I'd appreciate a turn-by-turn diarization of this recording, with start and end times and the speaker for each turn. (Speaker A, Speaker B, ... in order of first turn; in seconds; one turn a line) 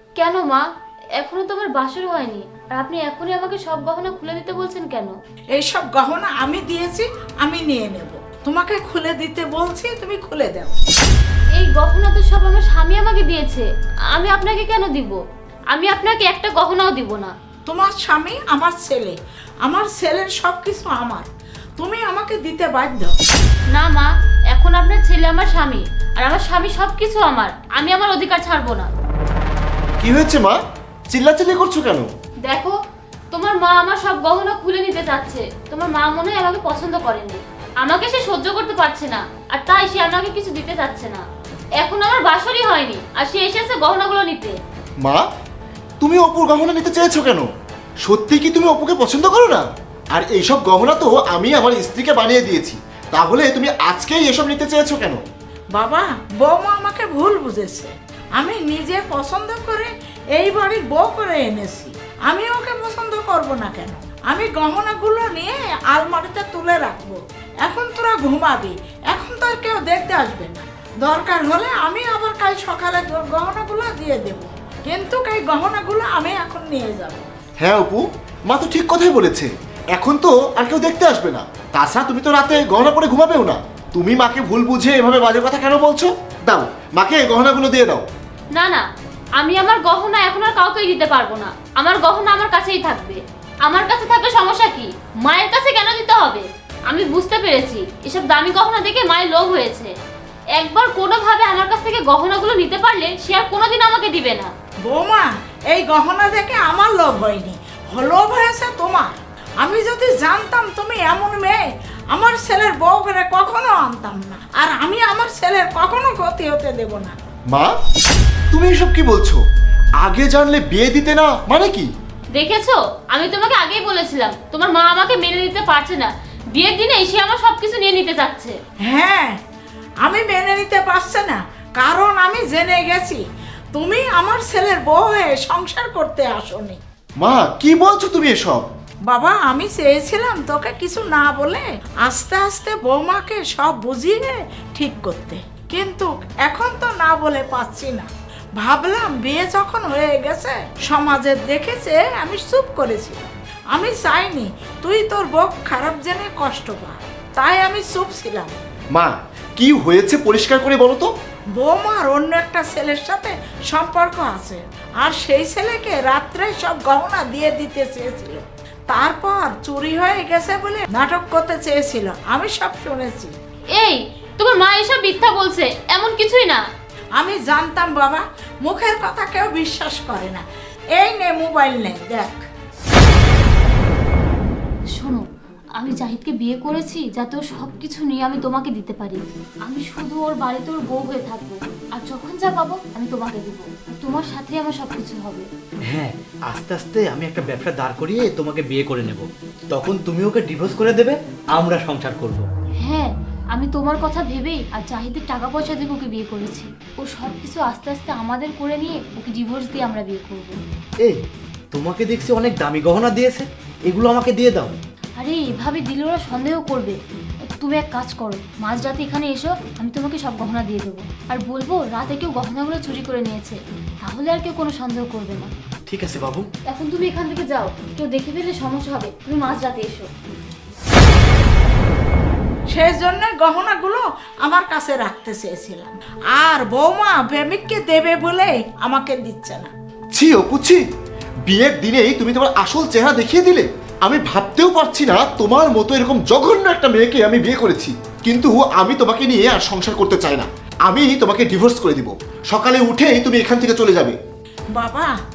Speaker A: 0.2-0.6
Speaker A: 1.2-5.1
Speaker B: 5.5-10.8
Speaker A: 11.6-15.2
Speaker A: 15.7-17.3
Speaker B: 17.7-21.3
Speaker B: 21.8-23.2
Speaker A: 23.7-28.9
Speaker C: 30.0-30.6
Speaker C: 31.1-32.1
Speaker A: 32.5-32.8
Speaker A: 33.3-41.2
Speaker A: 41.8-44.6
Speaker C: 46.0-47.5
Speaker C: 48.0-55.2
Speaker B: 55.7-77.3
Speaker C: 77.6-88.0
Speaker A: 88.5-88.8
Speaker A: 89.4-99.9
Speaker A: 100.6-104.5
Speaker B: 104.8-117.2
Speaker C: 118.5-119.4
Speaker C: 120.0-121.9
Speaker A: 122.3-128.6
Speaker B: 128.9-129.4
Speaker B: 130.0-133.2
Speaker B: 133.7-136.8
Speaker C: 137.2-138.7
Speaker B: 139.1-158.6
Speaker C: 158.9-161.1
Speaker B: 161.6-173.3
Speaker A: 173.8-176.6
Speaker B: 177.2-180.4
Speaker B: 181.0-182.4
Speaker A: 184.9-185.2
Speaker A: 185.8-195.5
Speaker D: 195.9-202.5
Speaker A: 202.8-210.6
Speaker D: 211.0-214.7
Speaker A: 215.2-217.0
Speaker A: 217.6-225.5
Speaker D: 225.9-226.5
Speaker A: 226.7-230.1
Speaker B: 232.7-239.7
Speaker C: 240.1-240.8
Speaker C: 241.5-254.2
Speaker B: 254.7-255.1